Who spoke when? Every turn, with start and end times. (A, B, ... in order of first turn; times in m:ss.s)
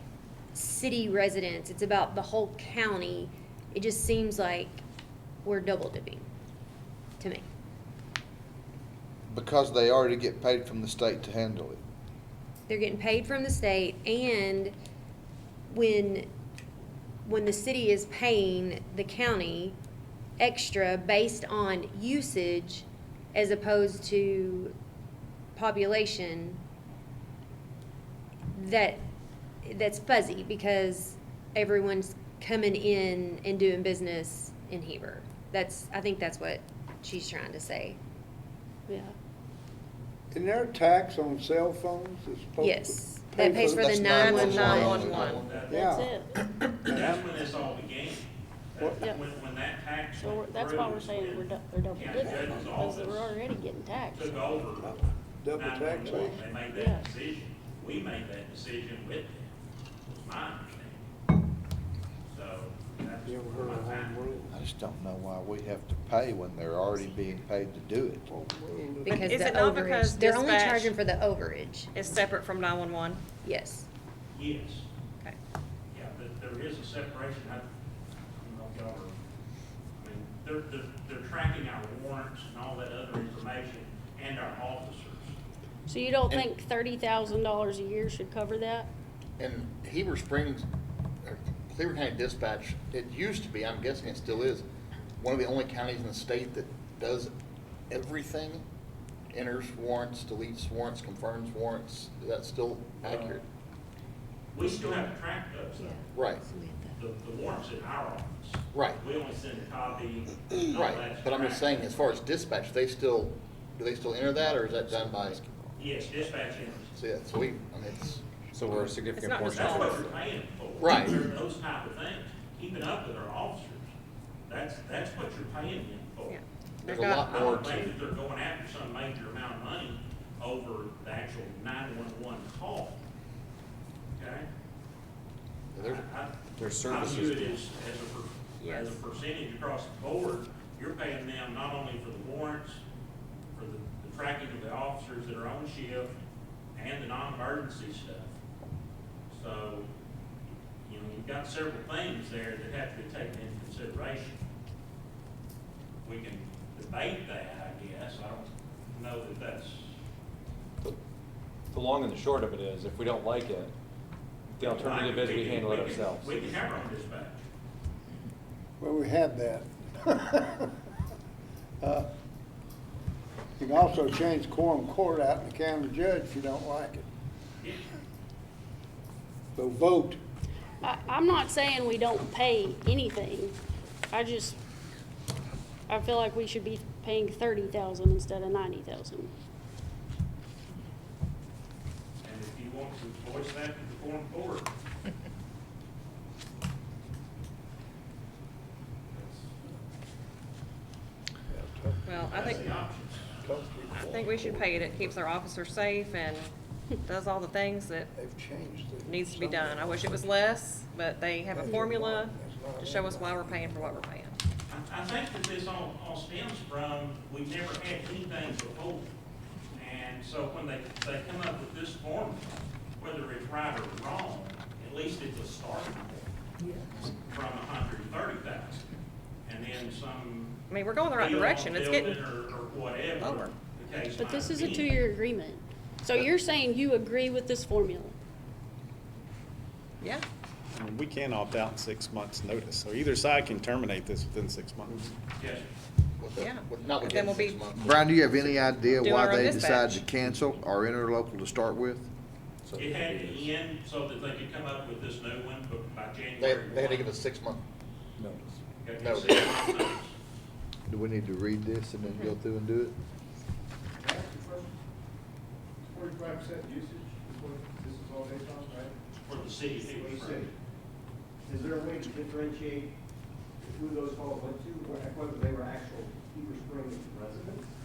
0:00.5-0:04.8 A
0:05.4-0:06.2 A
0:07.2-0:07.4 A
0:09.3-0:11.8 B
0:12.7-0:14.7 A
0:15.7-0:16.3 A
0:17.2-0:19.7 A
0:20.4-0:24.7 A
0:25.5-0:26.6 A
0:28.5-0:29.0 A
0:29.6-0:38.0 A
0:38.9-0:39.1 C
0:40.3-0:46.1 D
0:42.6-0:45.1 A
0:43.8-0:45.5 E
0:44.2-0:45.7 F
0:45.4-0:46.4 C
0:46.8-0:47.2 D
0:46.8-0:53.4 G
0:48.8-0:49.1 D
0:50.2-0:54.6 C
0:54.1-0:59.5 G
0:54.8-0:56.5 D
0:56.7-0:57.1 C
1:00.0-1:01.1 G
1:02.3-1:04.4 G
1:03.2-1:04.5 D
1:04.5-1:08.3 B
1:08.3-1:09.2 D
1:09.0-1:12.0 A
1:09.1-1:10.9 E
1:11.9-1:13.2 E
1:13.4-1:13.9 A
1:14.3-1:14.8 G
1:15.9-1:17.7 G
1:18.4-1:19.2 G
1:19.9-1:25.4 G
1:25.9-1:28.9 C
1:29.4-1:30.6 F
1:31.2-1:34.6 F
1:35.2-1:37.3 F
1:37.9-1:38.6 F
1:39.3-1:43.4 F
1:43.0-1:43.4 G
1:44.5-1:46.0 G
1:46.1-1:46.4 F
1:46.9-1:52.1 G
1:48.7-1:49.0 F
1:50.7-1:55.4 F
1:55.8-1:56.9 G
1:56.9-1:59.1 F
1:58.5-2:00.0 H
1:59.1-2:00.0 E
1:59.4-2:03.9 G
2:00.8-2:01.2 F
2:04.5-2:06.4 G
2:06.3-2:07.8 E
2:06.8-2:07.9 F
2:07.2-2:13.0 G
2:14.2-2:14.4 G
2:15.7-2:16.0 F
2:15.8-2:22.8 G
2:16.6-2:17.5 H
2:18.6-2:19.0 E
2:23.5-2:26.2 G
2:26.7-2:28.4 G
2:29.3-2:29.9 G
2:30.8-2:34.4 G
2:36.0-2:39.9 G
2:41.7-2:43.7 H
2:44.5-2:46.4 H
2:44.6-2:47.4 G
2:48.8-2:50.7 D
2:51.8-2:52.1 D
2:53.6-2:57.0 D
2:59.6-3:00.2 D
3:00.8-3:03.6 C
3:04.1-3:04.6 C
3:05.9-3:09.3 C
3:12.2-3:14.7 G
3:21.5-3:22.8 D
3:22.0-3:22.7 E
3:22.2-3:24.2 G
3:23.4-3:25.2 D
3:23.9-3:26.5 E
3:27.0-3:28.1 E
3:28.1-3:30.2 D
3:29.0-3:34.3 E
3:31.5-3:34.0 D
3:34.7-3:39.1 G
3:39.7-3:46.3 G
3:47.0-3:48.8 G
3:49.4-3:50.6 G
3:50.7-3:52.2 E
3:51.1-3:55.0 G
3:53.2-3:53.5 E
3:54.1-3:58.1 C
4:00.7-4:05.1 I
4:05.4-4:05.7 G
4:06.2-4:07.9 F
4:06.4-4:10.0 E
4:07.7-4:12.1 B
4:12.7-4:13.4 H
4:12.8-4:17.0 G
4:16.4-4:17.6 F
4:18.8-4:20.1 G
4:19.0-4:19.7 F
4:20.9-4:23.0 B
4:22.0-4:22.3 E
4:24.0-4:24.7 J
4:25.8-4:28.9 J
4:29.2-4:30.4 G
4:29.8-4:30.5 J
4:31.4-4:32.9 J
4:33.6-4:37.6 J